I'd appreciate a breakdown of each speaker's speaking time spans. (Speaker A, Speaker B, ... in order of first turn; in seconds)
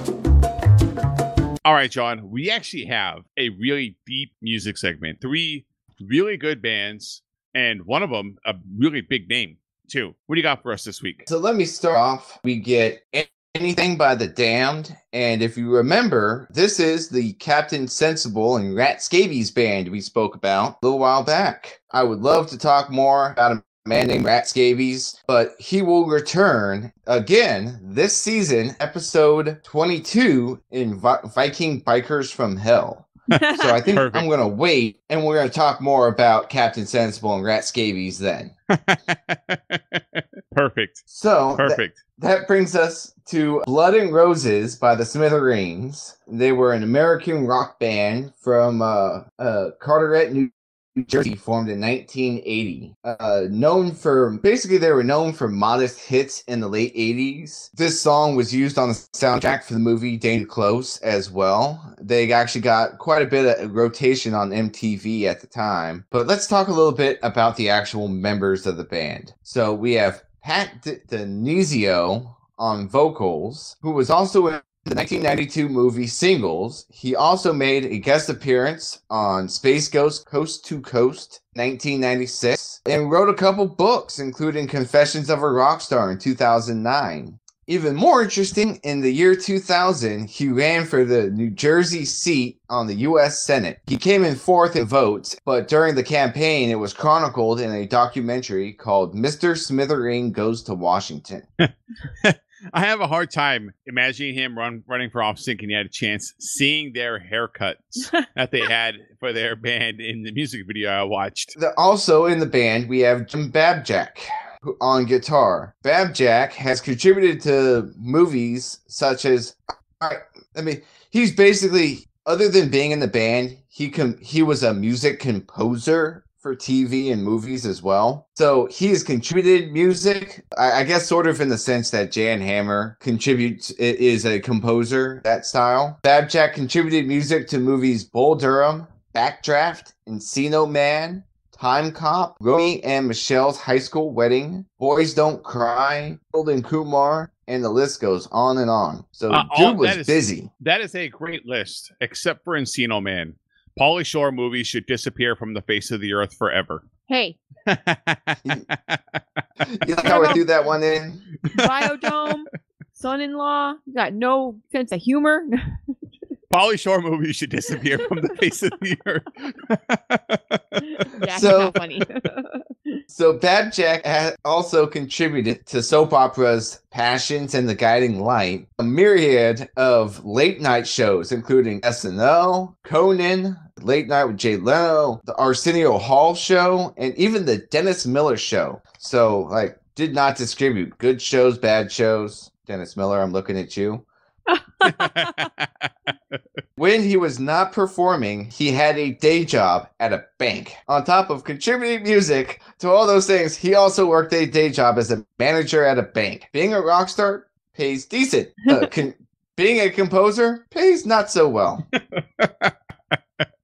Speaker A: 1.6-11.3, 33.4-34.3, 38.7-42.0, 101.6-111.6, 149.3-156.9, 157.7-159.4, 161.5-162.3, 166.5-171.1, 194.8-195.9, 212.0-212.7
Speaker B: 11.3-38.5, 41.1-101.5, 111.6-150.5, 159.7-161.2, 171.3-171.8, 173.1-194.1, 196.8-211.8
Speaker C: 33.3-33.8, 157.1-157.4, 160.0-160.4, 161.5-165.8, 171.1-173.0, 194.5-195.5